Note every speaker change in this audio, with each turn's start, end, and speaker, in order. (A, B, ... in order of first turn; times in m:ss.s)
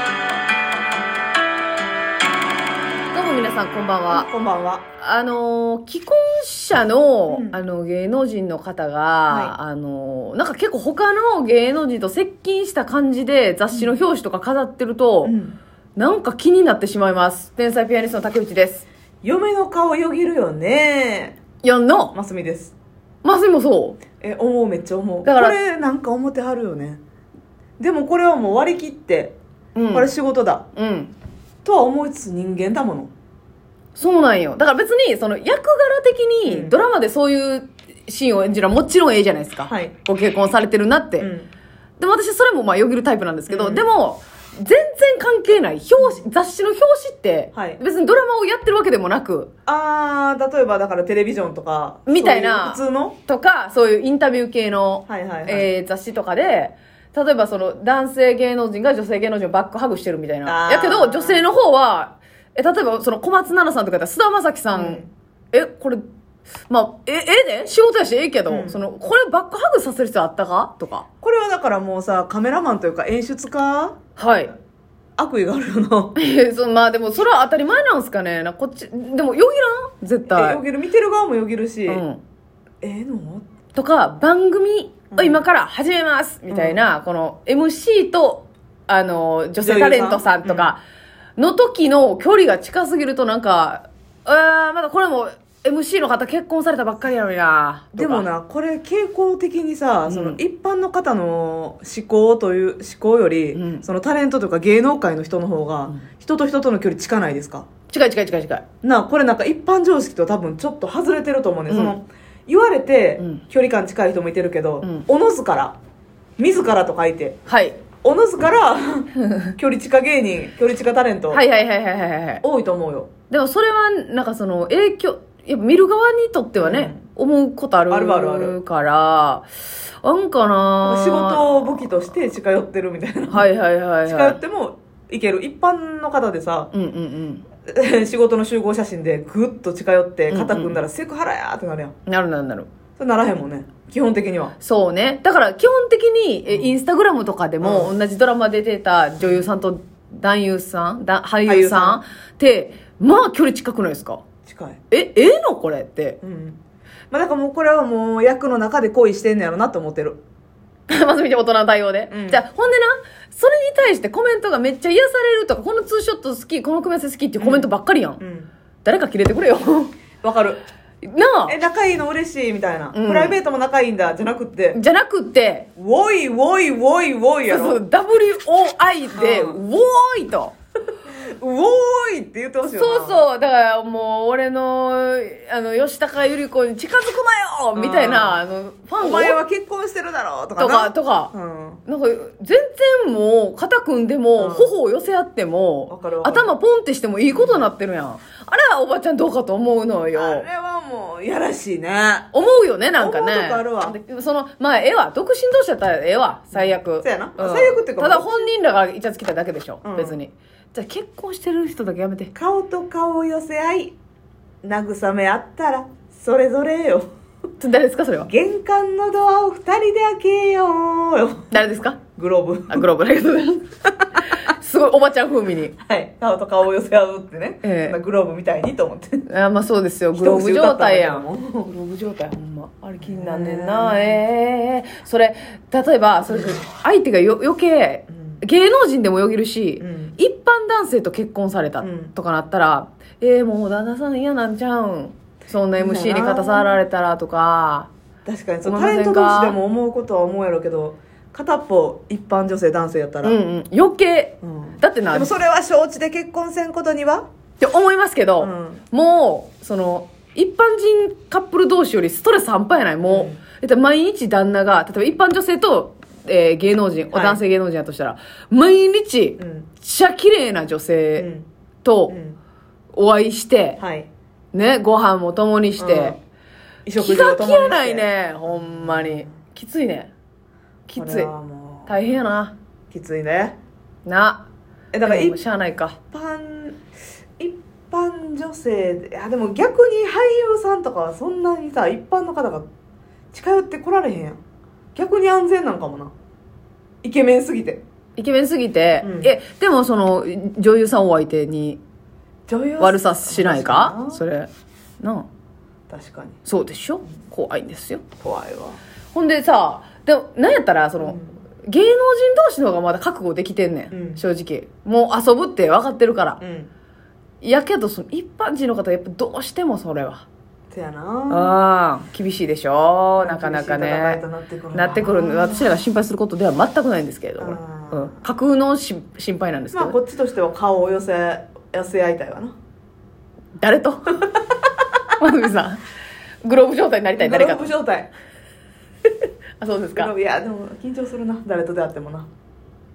0:03.1-0:04.3 A
0:04.1-0:04.8 B
0:05.0-0:15.3 A
0:07.3-0:07.6 B
0:09.3-0:09.5 B
0:15.2-0:15.6 B
0:16.0-0:18.8 A
0:19.2-0:21.4 B
0:21.6-0:22.1 A
0:22.1-0:22.7 B
0:23.2-0:24.0 A
0:24.2-0:27.0 B
0:25.2-0:25.6 A
0:27.8-0:29.4 B
0:29.8-0:30.1 A
0:29.9-0:30.6 B
0:30.7-0:31.1 A
0:31.6-0:33.1 B
0:34.0-0:41.3 A
0:36.4-0:36.8 B
0:41.2-0:41.5 B
0:42.0-0:49.5 A
0:43.5-0:43.9 B
0:47.5-0:47.8 B
0:49.6-0:53.2 B
0:52.0-1:06.0 A
0:55.1-0:55.7 B
1:00.4-1:01.4 B
1:04.7-1:05.1 B
1:06.7-1:11.0 A
1:08.5-1:08.8 B
1:11.2-1:14.0 B
1:14.2-1:14.5 A
1:15.2-1:16.2 B
1:16.2-1:20.6 A
1:20.3-1:22.0 B
1:21.9-1:22.2 A
1:22.8-1:23.4 B
1:23.7-1:30.8 A
1:25.1-1:25.4 B
1:26.5-1:26.8 B
1:29.6-1:30.7 B
1:31.4-1:38.3 A
1:37.9-1:47.7 B
1:40.1-1:40.4 A
1:43.5-1:43.8 A
1:47.9-1:48.6 A
1:48.8-1:55.7 B
1:51.7-1:52.0 A
1:56.4-1:57.4 B
1:57.5-1:57.8 A
1:58.0-2:01.4 B
2:01.3-2:02.4 A
2:02.4-2:03.1 B
2:03.3-2:09.5 A
2:06.6-2:07.0 B
2:07.9-2:08.6 B
2:10.0-2:11.8 A
2:10.8-2:13.5 B
2:13.3-2:14.4 A
2:14.0-2:16.7 B
2:16.7-2:17.4 A
2:17.7-2:21.9 B
2:20.3-2:20.8 A
2:22.0-2:22.7 A
2:23.0-2:24.5 B
2:24.6-2:34.2 A
2:26.5-2:26.7 B
2:27.6-2:27.9 B
2:29.2-2:29.5 B
2:31.4-2:32.0 B
2:34.4-2:34.8 B
2:34.9-2:36.2 A
2:36.2-2:36.6 B
2:37.1-2:40.2 B
2:40.9-2:48.2 A
2:42.1-2:42.4 B
2:47.4-2:48.5 B
2:48.8-2:49.9 A
2:50.2-2:50.6 B
2:51.0-2:51.6 A
2:51.5-2:54.8 B
2:52.9-2:53.4 A
2:54.7-2:55.7 A
2:55.8-2:57.8 B
2:57.5-3:00.5 A
2:59.2-2:59.6 B
3:01.1-3:03.2 B
3:02.6-3:09.4 A
3:07.7-3:08.4 B
3:09.0-3:11.8 B
3:10.6-3:11.3 A
3:11.8-3:20.4 A
3:14.4-3:14.7 B
3:15.9-3:16.5 B
3:17.3-3:17.7 B
3:20.1-3:22.3 B
3:22.3-3:32.3 A
3:23.0-3:24.0 B
3:26.5-3:28.4 B
3:29.8-3:30.2 B
3:32.3-3:34.0 B
3:34.6-3:37.1 B
3:37.6-3:38.3 A
3:38.2-3:41.5 B
3:41.5-3:42.0 A
3:42.2-3:42.9 B
3:42.7-3:43.7 A
3:44.4-3:45.7 A
3:45.8-3:49.2 B
3:47.6-3:48.0 A
3:49.2-4:07.9 A
3:50.1-3:51.7 B
3:53.0-3:54.2 B
3:56.3-3:56.6 B
3:58.1-3:58.4 B
3:59.8-4:00.2 B
4:01.8-4:02.1 B
4:05.8-4:06.8 B
4:08.2-4:13.4 B
4:08.6-4:09.6 A
4:13.2-4:15.3 A
4:14.4-4:17.2 B
4:17.6-4:31.3 A
4:18.4-4:18.8 B
4:23.1-4:23.4 B
4:27.1-4:27.4 B
4:29.4-4:29.7 B
4:31.2-4:31.5 B
4:31.8-4:32.1 A
4:32.1-4:32.4 B
4:32.9-4:33.8 A
4:33.8-4:34.1 B
4:34.5-4:36.2 A
4:35.8-4:36.2 B
4:36.8-4:39.2 B
4:37.0-4:40.1 A
4:40.9-4:41.3 A
4:41.0-4:42.1 B
4:41.9-4:42.5 A
4:42.9-4:43.6 B
4:44.0-4:44.4 A
4:44.9-4:45.4 B
4:45.0-4:46.0 A
4:46.1-4:46.8 B
4:47.4-4:52.7 B
4:53.3-4:54.4 B
4:54.9-4:56.1 B
4:57.0-4:57.8 B
4:58.2-5:01.8 A
4:59.0-4:59.3 B
5:02.5-5:04.2 B
5:02.8-5:04.5 A
5:05.0-5:05.3 A
5:05.9-5:06.4 B
5:06.4-5:08.0 A
5:08.2-5:08.8 B
5:09.1-5:16.4 A
5:11.0-5:11.4 B
5:13.9-5:14.2 B
5:16.4-5:16.7 B
5:17.4-5:20.2 A
5:20.7-5:21.5 B
5:21.3-5:24.2 A
5:23.2-5:25.8 B
5:24.7-5:30.0 A
5:27.4-5:28.2 B
5:29.7-5:32.5 B
5:33.6-5:34.3 A
5:35.2-5:35.8 A
5:36.4-5:37.7 A
5:37.2-5:38.1 B
5:39.6-5:40.1 A
5:40.0-5:42.3 B